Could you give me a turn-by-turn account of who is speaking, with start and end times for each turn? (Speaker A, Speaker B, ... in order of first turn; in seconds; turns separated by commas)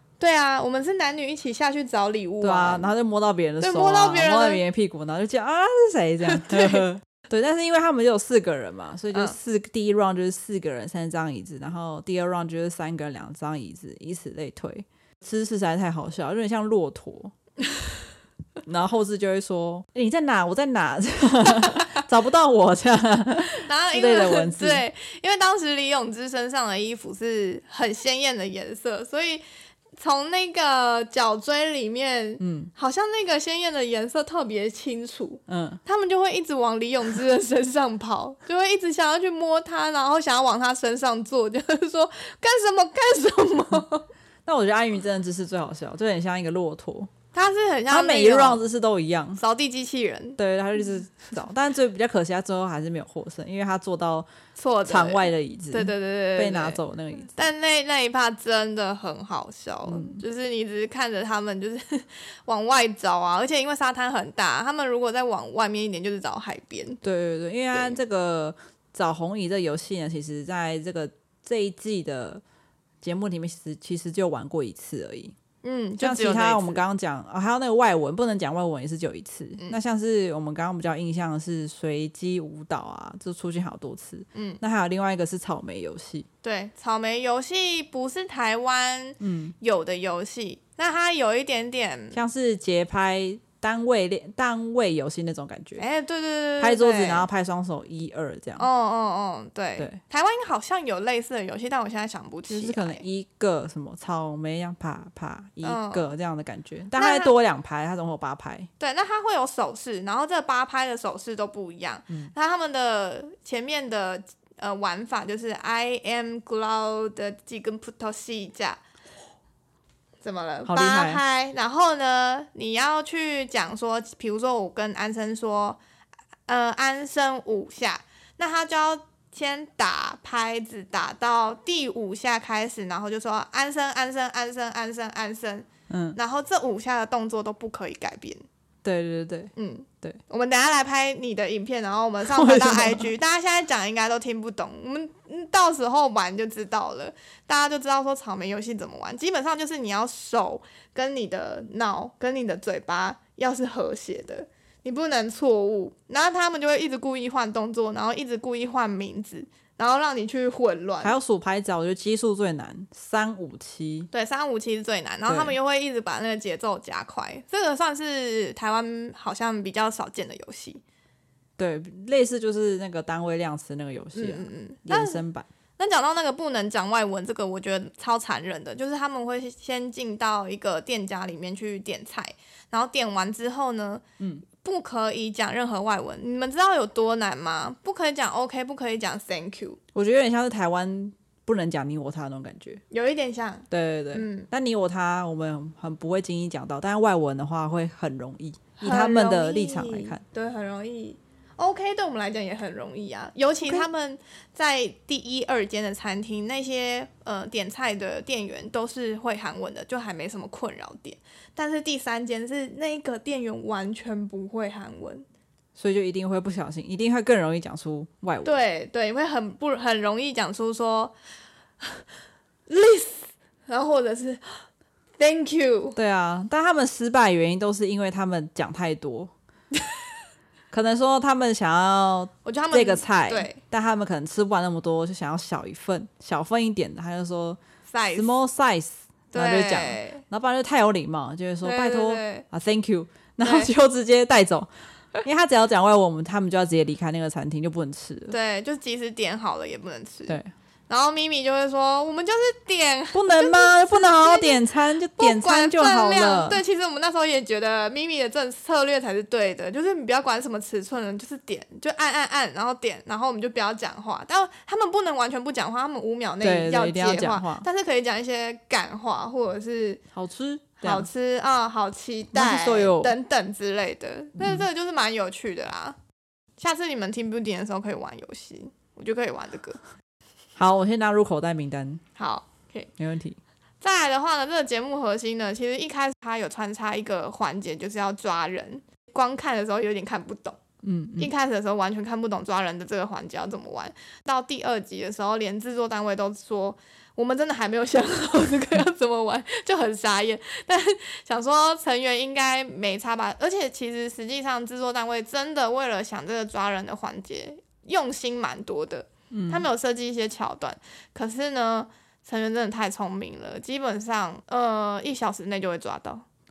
Speaker A: 0.2-2.9, Speaker B: 2.4-17.3, Speaker A: 3.6-4.6, Speaker A: 6.3-6.8, Speaker B: 18.6-24.9, Speaker A: 23.5-29.4, Speaker A: 30.0-44.1, Speaker B: 32.4-32.7, Speaker B: 35.5-35.8, Speaker B: 44.5-47.1, Speaker A: 47.3-48.6, Speaker B: 47.9-49.4, Speaker A: 49.4-50.4, Speaker B: 50.4-54.3, Speaker A: 54.6-67.0, Speaker B: 54.9-57.4, Speaker B: 59.9-60.2, Speaker B: 67.0-72.4, Speaker B: 73.0-75.3, Speaker A: 75.6-76.8, Speaker B: 76.0-86.3, Speaker A: 84.3-84.6, Speaker A: 86.4-92.2, Speaker B: 89.2-89.5, Speaker B: 92.1-95.8, Speaker A: 95.8-97.3, Speaker B: 96.6-98.7, Speaker A: 98.6-103.0, Speaker B: 102.5-108.7, Speaker A: 105.6-106.1, Speaker A: 107.0-107.3, Speaker A: 108.8-118.8, Speaker A: 120.2-125.8, Speaker B: 120.7-121.2, Speaker A: 126.5-138.4, Speaker B: 135.9-136.2, Speaker B: 138.8-140.2, Speaker A: 139.6-161.1, Speaker B: 142.3-143.1, Speaker B: 161.0-164.1, Speaker A: 164.1-170.8, Speaker B: 165.3-165.6, Speaker B: 171.6-175.5, Speaker A: 174.2-175.2, Speaker A: 175.8-184.0, Speaker B: 184.2-184.4, Speaker A: 184.6-189.8, Speaker B: 189.9-192.8, Speaker A: 192.9-194.5, Speaker B: 193.7-200.2, Speaker A: 198.8-215.2, Speaker B: 215.8-218.6, Speaker A: 218.4-221.1, Speaker A: 222.7-224.7, Speaker A: 225.2-226.0, Speaker B: 225.9-229.3, Speaker B: 230.7-237.6, Speaker A: 232.4-233.6, Speaker A: 237.9-238.4, Speaker B: 238.2-244.7, Speaker A: 239.3-240.2, Speaker A: 241.6-242.4, Speaker A: 243.4-243.7, Speaker B: 245.2-248.3, Speaker A: 248.3-250.4, Speaker A: 250.9-254.6, Speaker B: 253.1-256.6, Speaker A: 255.2-270.0, Speaker B: 266.4-267.7, Speaker B: 270.1-271.1, Speaker A: 270.8-276.0, Speaker B: 272.3-273.1, Speaker B: 274.4-274.7, Speaker A: 276.6-279.8, Speaker B: 280.6-282.0, Speaker A: 282.2-282.9, Speaker B: 283.0-283.4, Speaker A: 283.8-290.6, Speaker B: 290.8-291.3, Speaker A: 291.2-316.2, Speaker B: 309.3-309.7